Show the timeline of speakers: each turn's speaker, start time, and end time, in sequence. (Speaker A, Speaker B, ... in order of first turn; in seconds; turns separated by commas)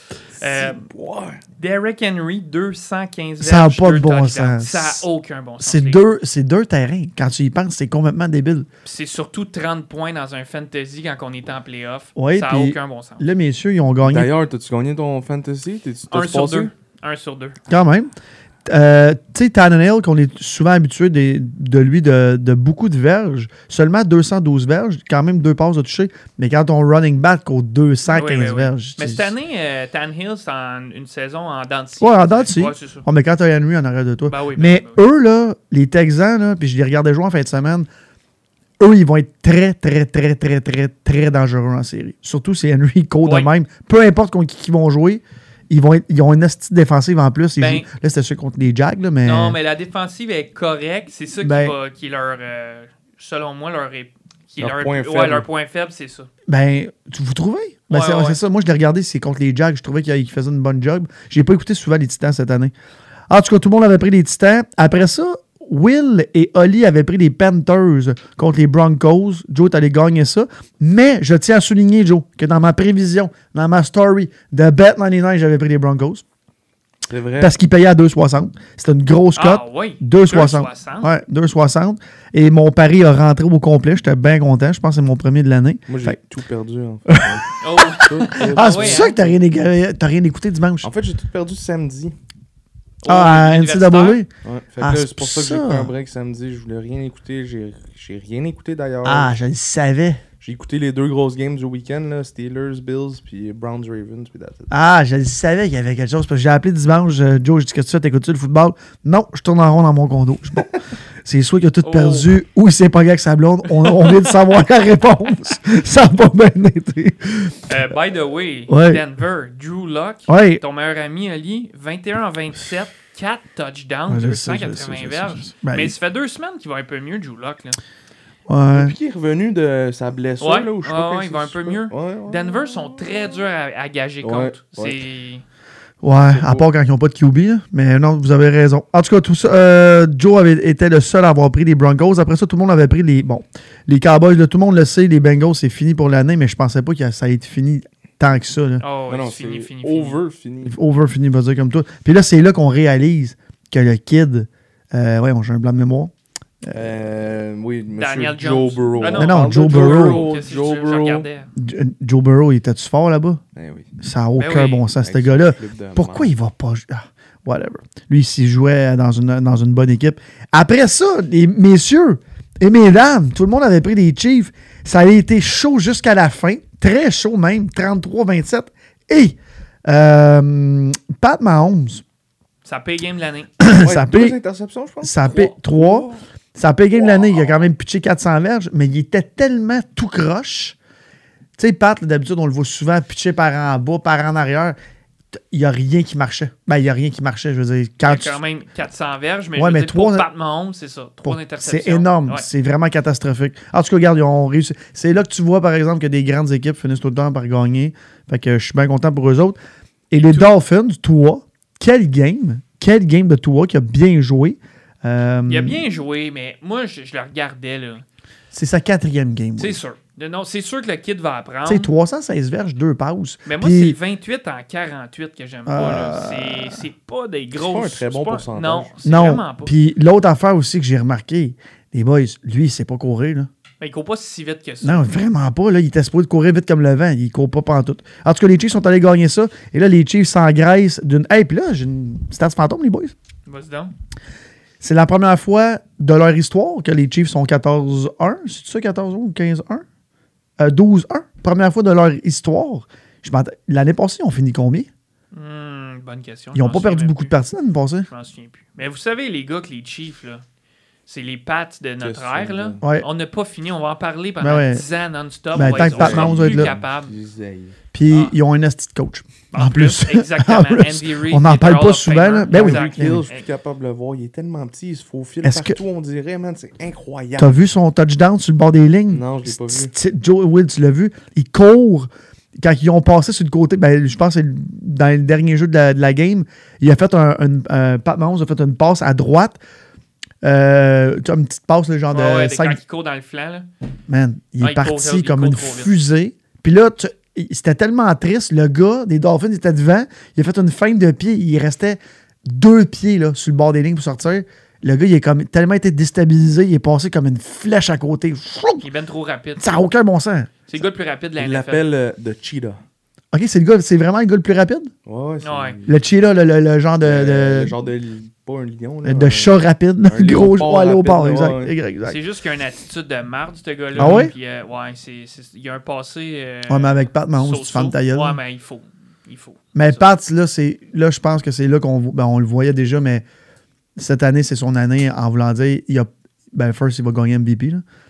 Speaker A: 0.4-0.8, Speaker B: 0.4-1.4, Speaker A: 1.6-6.0, Speaker C: 3.4-5.0, Speaker C: 5.6-8.7, Speaker A: 8.8-13.3, Speaker C: 12.2-14.3, Speaker B: 14.0-16.7, Speaker A: 16.1-17.6, Speaker C: 17.7-18.1, Speaker C: 18.7-29.3, Speaker A: 28.1-33.0, Speaker C: 32.0-37.9, Speaker A: 34.3-35.0, Speaker C: 38.8-49.6, Speaker A: 43.2-43.5, Speaker A: 47.6-47.9, Speaker A: 49.2-56.3, Speaker C: 51.4-51.8, Speaker B: 54.6-55.5, Speaker C: 56.5-62.7, Speaker A: 57.9-58.4, Speaker C: 63.3-76.2, Speaker B: 77.1-77.6, Speaker C: 77.4-86.2, Speaker A: 79.3-81.1, Speaker B: 85.9-87.5, Speaker C: 87.1-87.4, Speaker A: 87.6-89.2, Speaker B: 88.0-89.3, Speaker C: 88.4-90.9, Speaker B: 90.8-92.1, Speaker A: 93.0-94.2, Speaker C: 93.0-95.9, Speaker B: 94.4-99.4, Speaker C: 99.0-100.2, Speaker B: 100.4-104.7, Speaker C: 104.7-110.7, Speaker C: 111.2-117.5, Speaker A: 111.8-112.3, Speaker A: 113.7-114.4, Speaker A: 117.7-127.8, Speaker C: 118.7-119.0, Speaker C: 120.3-120.6, Speaker C: 124.1-125.9, Speaker C: 128.5-128.9, Speaker B: 128.7-133.3, Speaker A: 130.4-135.4, Speaker B: 134.2-135.0, Speaker C: 136.0-148.8, Speaker B: 136.1-136.6, Speaker A: 148.8-150.2, Speaker B: 149.1-150.8, Speaker C: 150.7-156.9, Speaker B: 156.7-161.3, Speaker A: 157.9-161.5, Speaker C: 159.2-160.2, Speaker C: 161.6-163.4, Speaker B: 163.6-163.9, Speaker C: 164.0-182.0, Speaker A: 164.3-164.8, Speaker B: 164.9-166.3, Speaker A: 182.6-183.5, Speaker C: 183.6-184.4, Speaker B: 183.7-186.2, Speaker C: 185.0-190.8, Speaker B: 187.1-187.6, Speaker C: 191.6-194.8, Speaker C: 195.3-198.4, Speaker A: 198.0-202.4, Speaker C: 199.6-200.3, Speaker C: 201.2-209.6, Speaker C: 210.1-215.8, Speaker A: 215.4-218.0, Speaker C: 218.5-219.8, Speaker A: 219.6-221.9, Speaker C: 221.7-224.0, Speaker A: 223.4-229.7, Speaker C: 225.7-226.8, Speaker B: 227.6-228.9, Speaker C: 229.0-233.5, Speaker A: 233.8-235.1, Speaker C: 234.8-243.1, Speaker A: 243.4-243.9, Speaker C: 244.8-249.8, Speaker C: 250.6-254.9, Speaker A: 255.3-257.3, Speaker C: 256.5-258.1, Speaker A: 258.1-260.4, Speaker A: 261.1-267.1, Speaker B: 262.0-262.8, Speaker C: 262.8-263.1, Speaker C: 264.4-264.8, Speaker C: 265.5-266.7, Speaker B: 265.5-267.8, Speaker C: 267.9-273.2, Speaker A: 268.1-268.3, Speaker A: 269.5-273.4, Speaker B: 272.5-277.6, Speaker C: 275.4-275.8, Speaker C: 277.4-282.1, Speaker B: 279.1-279.9, Speaker C: 282.6-289.6, Speaker C: 290.4-292.8, Speaker A: 292.1-293.7, Speaker C: 294.1-308.9, Speaker A: 294.6-295.9, Speaker A: 308.8-309.8, Speaker C: 309.6-310.5, Speaker A: 310.7-311.9, Speaker B: 311.4-312.8, Speaker C: 313.3-314.9, Speaker B: 315.1-316.1, Speaker A: 315.4-315.8, Speaker C: 315.9-317.7, Speaker B: 317.0-321.7, Speaker C: 319.0-322.2, Speaker A: 322.0-330.0, Speaker B: 323.9-324.2, Speaker C: 324.0-324.3, Speaker C: 326.7-328.4, Speaker C: 329.7-333.2, Speaker C: 334.0-337.8